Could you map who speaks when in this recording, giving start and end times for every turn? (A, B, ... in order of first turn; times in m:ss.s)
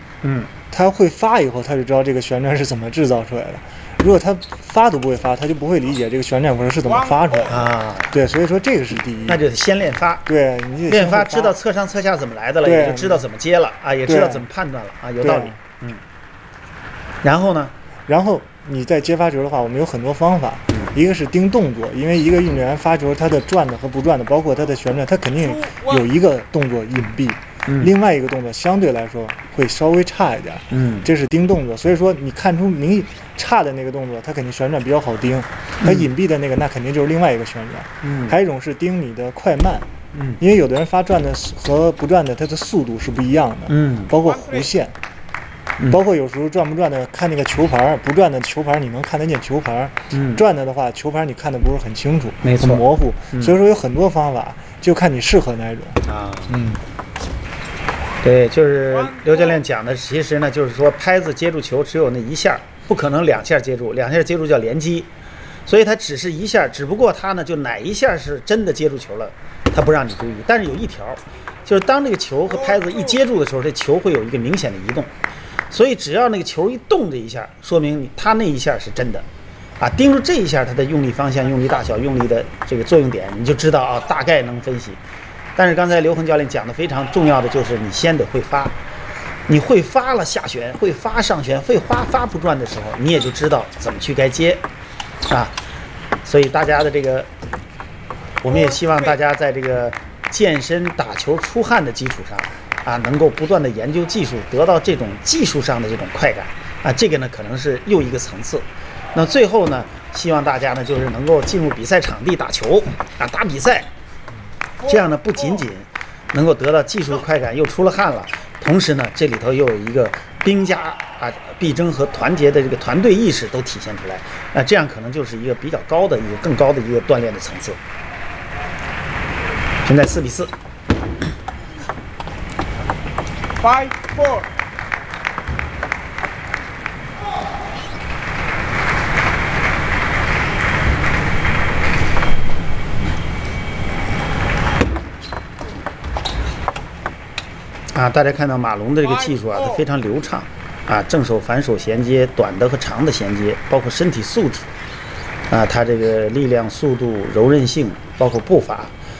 0:00.2-0:00.5 A
0:00.7-0:09.4 B
0:06.8-0:07.5 C
0:07.5-0:08.2 A
0:09.3-0:10.2 A
0:10.2-0:11.5 B
0:10.9-0:16.0 A
0:12.6-0:13.2 B
0:14.0-0:14.4 B
0:15.2-0:15.6 B
0:17.2-0:17.7 A
0:18.1-0:39.9 B
0:25.4-0:26.0 C
0:27.7-0:27.9 A
0:30.7-0:31.1 A
0:35.8-0:36.1 A
0:38.0-0:38.4 A
0:40.1-0:40.4 A
0:40.4-0:45.0 B
0:43.7-0:44.2 A
0:44.2-0:44.7 C
0:45.9-0:56.8 B
0:50.1-0:50.4 A
0:52.4-0:53.6 A
0:56.0-0:56.6 A
0:58.2-1:05.1 A
0:58.9-0:59.6 C
1:05.6-1:15.1 A
1:12.5-1:13.2 C
1:15.7-1:19.2 A
1:19.8-1:25.0 A
1:25.6-1:28.8 A
1:29.5-1:34.6 A
1:35.3-1:35.6 A
1:36.2-1:37.3 A
1:38.4-1:53.9 A
1:38.5-1:39.2 C
1:54.8-1:55.6 C
1:54.8-2:07.8 A
2:09.8-2:10.5 A
2:13.6-2:14.5 C
2:27.9-2:34.7 A
2:29.0-2:29.8 C
2:35.5-2:38.9 A